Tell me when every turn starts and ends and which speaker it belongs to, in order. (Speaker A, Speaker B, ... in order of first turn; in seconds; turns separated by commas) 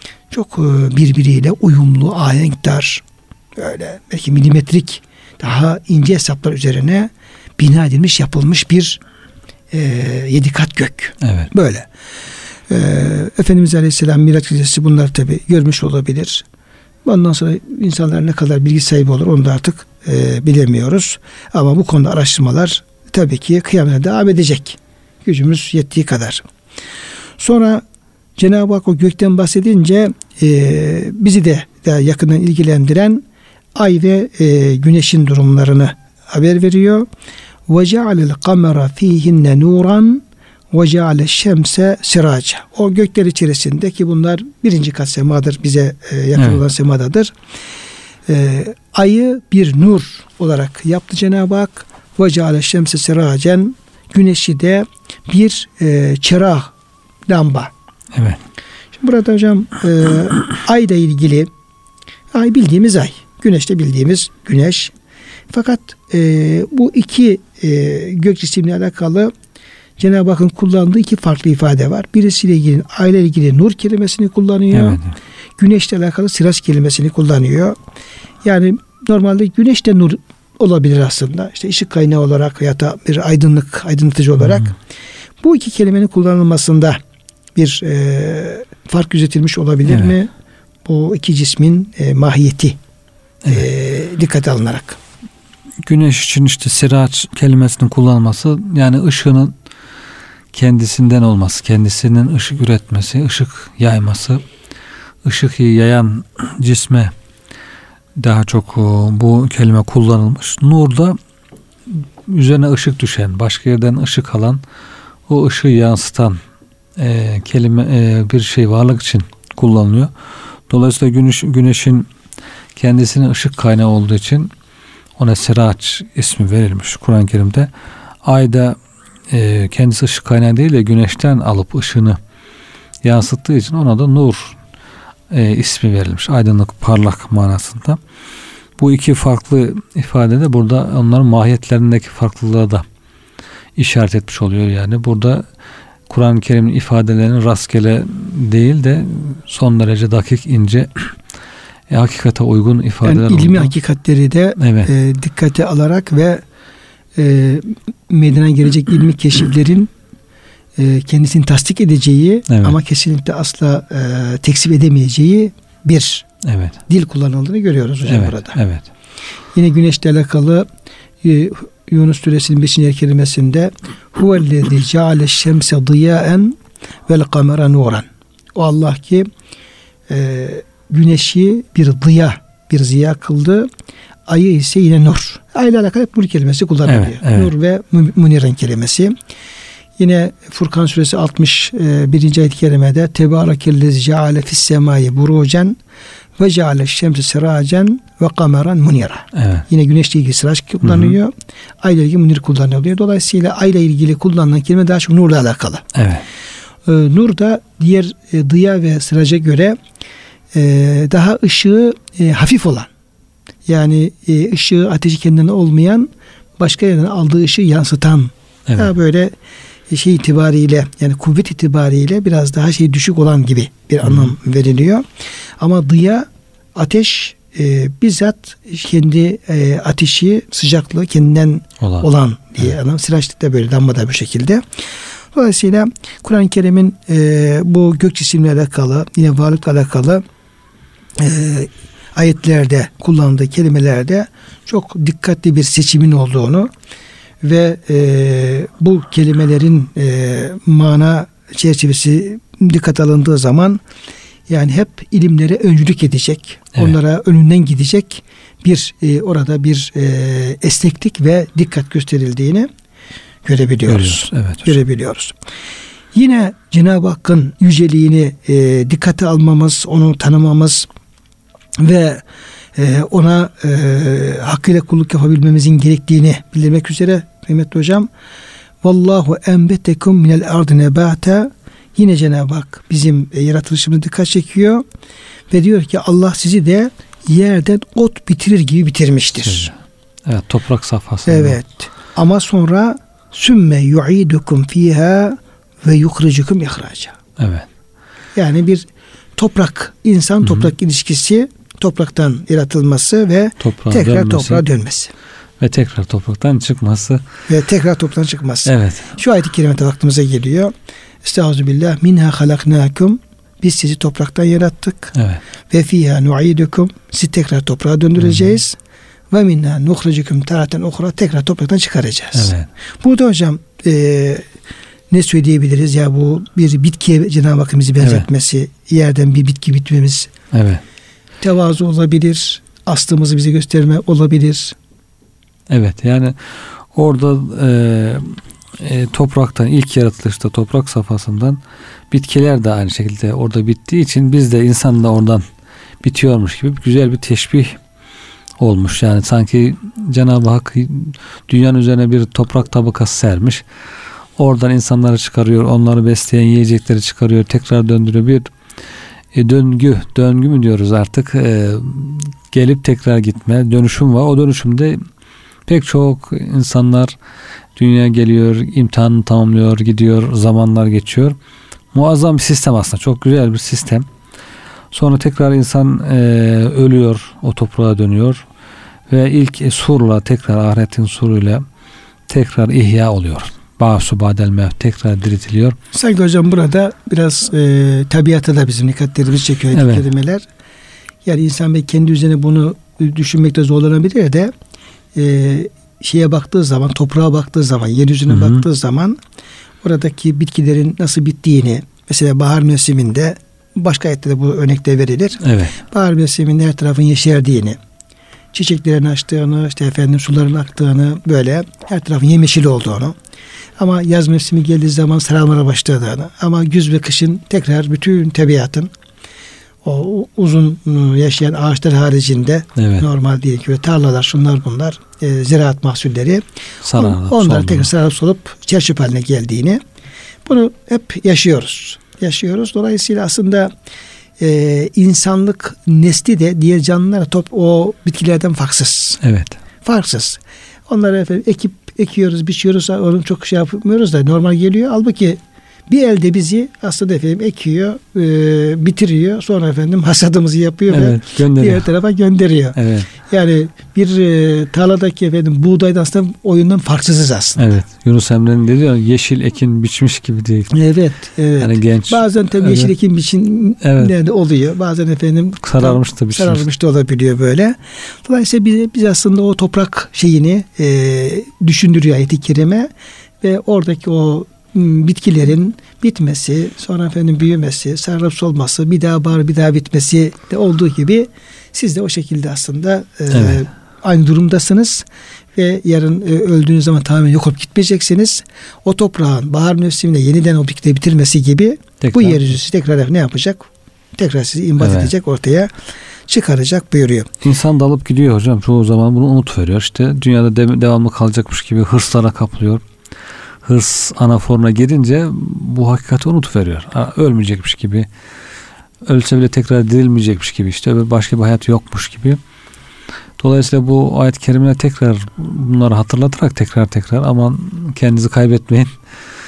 Speaker A: 0.3-3.0, Speaker A: 3.6-9.0, Speaker A: 9.7-11.9, Speaker B: 11.2-11.5, Speaker A: 12.7-16.4, Speaker A: 17.1-26.4, Speaker A: 27.4-27.8, Speaker A: 28.4-33.2, Speaker A: 33.8-37.1, Speaker A: 37.7-47.3, Speaker B: 46.4-46.6, Speaker A: 48.3-56.7, Speaker A: 57.3-57.7, Speaker B: 58.1-58.4, Speaker A: 59.0-61.5, Speaker A: 62.3-64.9, Speaker A: 65.5-69.3, Speaker A: 70.0-75.0, Speaker B: 74.7-75.2, Speaker A: 75.6-77.8, Speaker A: 78.4-84.8, Speaker A: 85.4-87.0, Speaker A: 87.6-90.3, Speaker B: 89.9-90.2, Speaker A: 90.9-92.8, Speaker A: 93.5-95.0, Speaker B: 95.8-99.5, Speaker B: 100.5-104.4, Speaker B: 105.2-107.1, Speaker B: 108.2-111.2, Speaker B: 111.9-114.6, Speaker B: 115.3-116.4, Speaker B: 117.0-120.1, Speaker B: 120.7-122.1, Speaker B: 122.8-124.5, Speaker B: 125.2-127.7, Speaker B: 128.2-128.8, Speaker B: 129.3-132.2, Speaker B: 133.0-134.6, Speaker B: 135.3-138.0, Speaker B: 138.8-142.8, Speaker B: 143.8-145.4, Speaker B: 146.1-151.2, Speaker B: 151.9-153.7, Speaker A: 153.0-156.4, Speaker B: 154.6-154.9, Speaker A: 157.2-159.9, Speaker A: 160.8-166.3, Speaker B: 162.5-162.8, Speaker B: 166.4-166.8, Speaker A: 166.9-168.6, Speaker B: 168.1-168.9, Speaker A: 169.6-170.7, Speaker A: 171.2-179.3, Speaker A: 180.1-183.7, Speaker A: 184.3-189.1, Speaker B: 186.9-187.5, Speaker A: 190.0-195.8, Speaker A: 196.4-205.9, Speaker B: 199.3-199.7, Speaker B: 200.8-201.2, Speaker B: 205.9-206.3, Speaker A: 206.9-209.8, Speaker A: 210.5-212.9, Speaker A: 213.7-219.3, Speaker B: 218.7-218.9, Speaker A: 219.9-225.0, Speaker B: 224.0-224.3, Speaker A: 225.6-234.6, Speaker B: 231.8-232.1, Speaker A: 235.3-240.2, Speaker A: 241.2-246.7, Speaker A: 247.4-253.8, Speaker A: 254.5-262.7, Speaker A: 263.4-265.3, Speaker B: 263.9-264.8, Speaker A: 266.1-270.9, Speaker A: 271.8-272.2, Speaker A: 272.8-278.1, Speaker A: 278.8-284.8, Speaker A: 285.5-289.7, Speaker B: 289.4-291.6, Speaker A: 291.3-297.2, Speaker B: 297.4-297.7, Speaker A: 298.4-305.1, Speaker B: 300.4-300.7, Speaker B: 303.6-304.6, Speaker B: 305.6-307.2, Speaker A: 307.5-310.7, Speaker B: 308.7-309.2, Speaker A: 311.2-315.2, Speaker B: 315.1-315.4, Speaker A: 315.7-318.8, Speaker B: 318.2-318.6, Speaker A: 319.3-324.4, Speaker B: 322.3-322.7, Speaker A: 325.1-330.3, Speaker B: 328.0-328.3, Speaker B: 330.5-330.8, Speaker A: 331.4-334.8, Speaker B: 335.7-341.6, Speaker B: 342.1-345.4, Speaker B: 346.0-347.8, Speaker B: 348.6-353.6, Speaker B: 354.4-358.5, Speaker B: 359.3-365.0, Speaker B: 365.7-367.1, Speaker B: 367.8-371.4, Speaker B: 371.9-374.1, Speaker B: 374.9-378.4, Speaker B: 379.1-381.6, Speaker B: 382.3-385.8, Speaker A: 385.9-390.4, Speaker B: 389.7-390.0, Speaker A: 391.2-394.5, Speaker A: 395.1-399.2, Speaker B: 398.3-398.6, Speaker A: 399.8-407.8, Speaker B: 405.4-405.7, Speaker A: 408.5-413.1, Speaker A: 413.8-418.9, Speaker A: 419.8-426.4, Speaker B: 422.8-423.1, Speaker B: 426.8-427.9, Speaker A: 426.9-429.8, Speaker A: 430.5-433.7, Speaker A: 434.4-439.2, Speaker B: 439.2-439.6, Speaker A: 439.8-457.7, Speaker B: 450.9-451.9, Speaker B: 452.8-453.1, Speaker B: 457.6-460.7, Speaker A: 460.7-472.9, Speaker B: 461.6-462.9, Speaker B: 463.8-464.1, Speaker B: 465.6-466.6, Speaker A: 473.4-495.7, Speaker B: 483.3-483.6, Speaker B: 492.0-492.4, Speaker B: 494.8-495.1, Speaker A: 496.3-497.3, Speaker B: 497.4-502.8, Speaker B: 503.6-508.1, Speaker B: 509.1-512.4, Speaker B: 513.4-519.0